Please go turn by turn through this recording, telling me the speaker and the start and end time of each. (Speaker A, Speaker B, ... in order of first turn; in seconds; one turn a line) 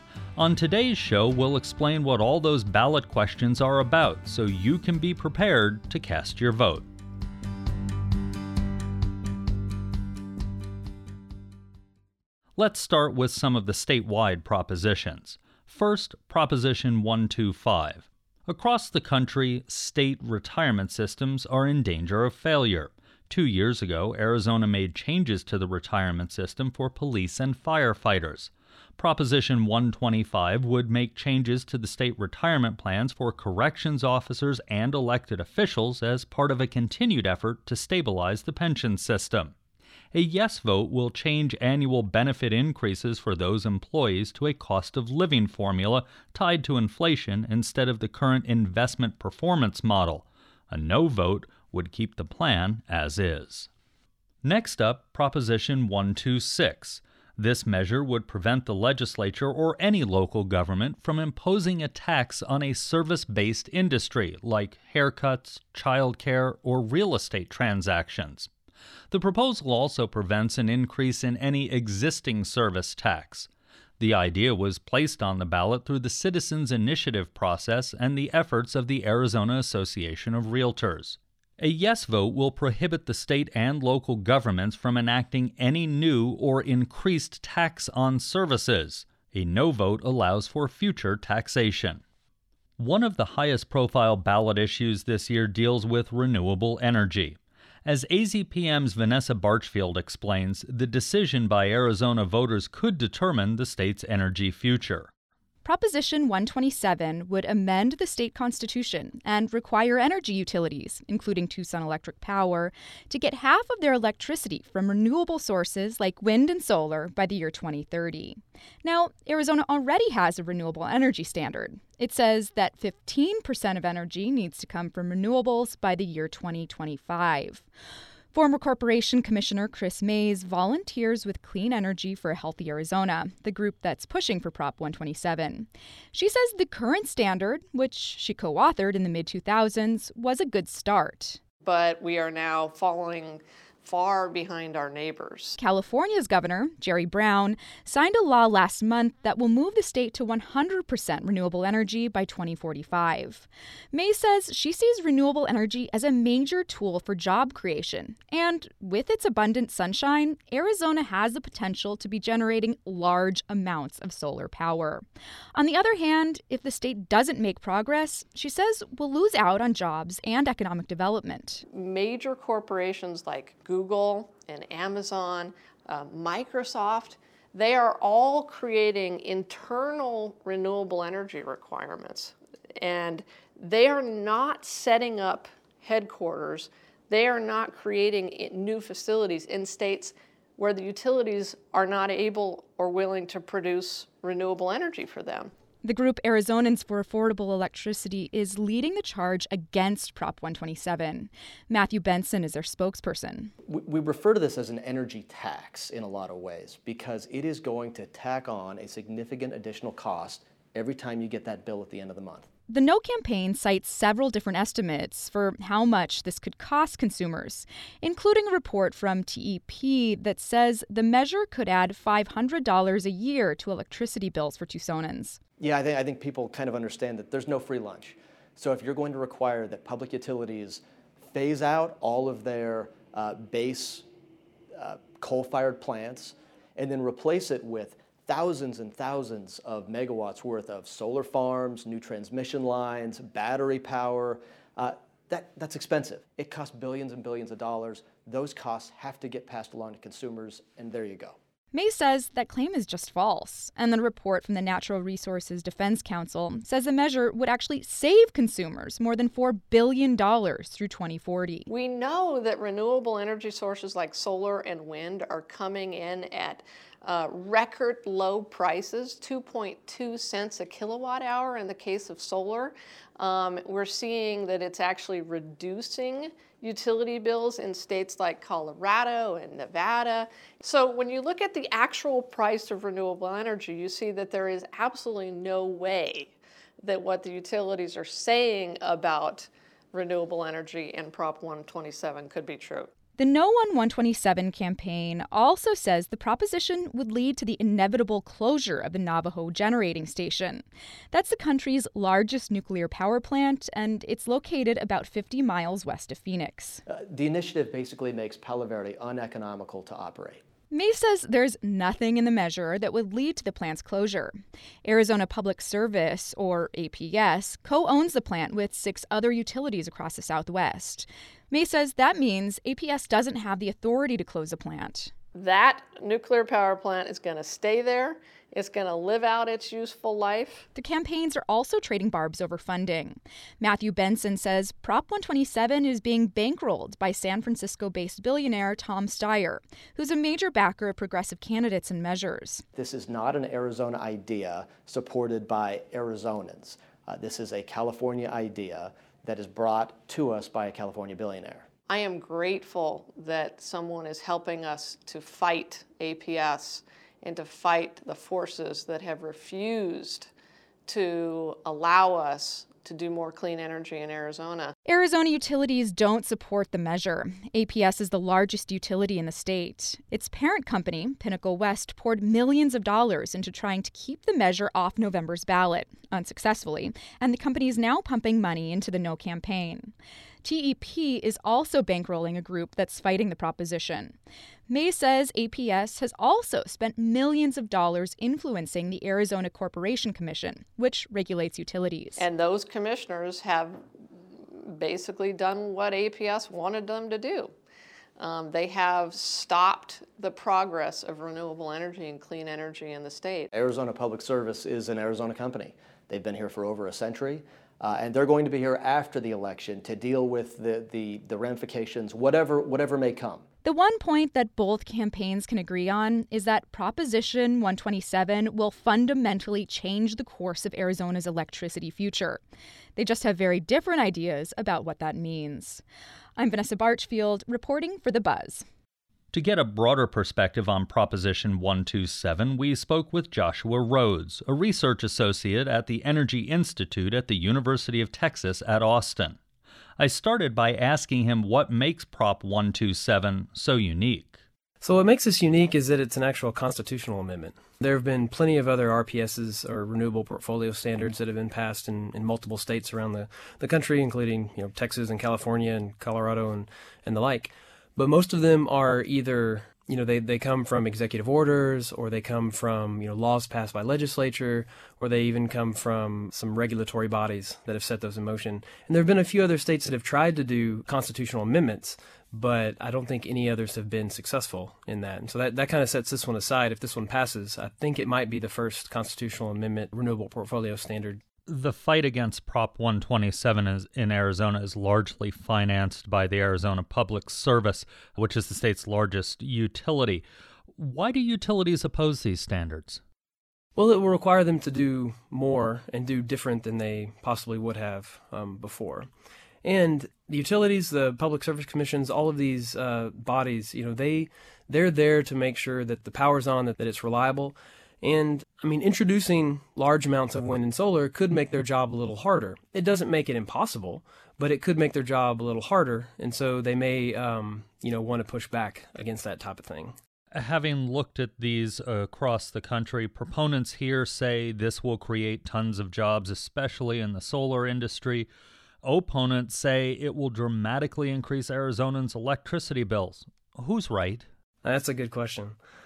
Speaker A: 0.3-6.9
Speaker A: 12.6-39.5
Speaker A: 40.1-53.7
Speaker A: 54.4-68.5
Speaker A: 69.1-92.0
Speaker A: 92.8-105.1
Speaker B: 105.6-127.7
Speaker B: 128.3-141.4
Speaker C: 141.6-145.6
Speaker B: 145.6-171.6
Speaker C: 171.7-195.5
Speaker B: 195.8-203.5
Speaker D: 203.7-212.5
Speaker B: 212.7-225.4
Speaker D: 225.6-234.1
Speaker D: 234.7-251.4
Speaker B: 251.7-261.6
Speaker C: 261.7-292.9
Speaker B: 293.2-306.8
Speaker D: 306.9-310.4
Speaker B: 310.7-325.1
Speaker C: 325.3-330.7
Speaker B: 330.7-342.6
Speaker D: 342.7-351.6
Speaker C: 351.9-360.3
Speaker C: 360.9-364.7
Speaker B: 364.9-384.1
Speaker B: 384.7-392.2
Speaker C: 392.2-393.8
Speaker C: 394.6-397.5
Speaker C: 398.2-403.5
Speaker D: 403.5-413.4
Speaker B: 413.6-422.4
Speaker B: 422.9-425.8
Speaker B: 426.4-428.6
Speaker A: 429.3-439.4
Speaker A: 440.0-444.4
Speaker E: 444.8-481.2
Speaker A: 481.5-490.2
Speaker A: 490.8-493.0
Speaker E: 493.8-499.1
Speaker E: 499.6-520.0
Speaker A: 520.3-528.3
Speaker A: 528.8-534.2
Speaker E: 534.6-535.6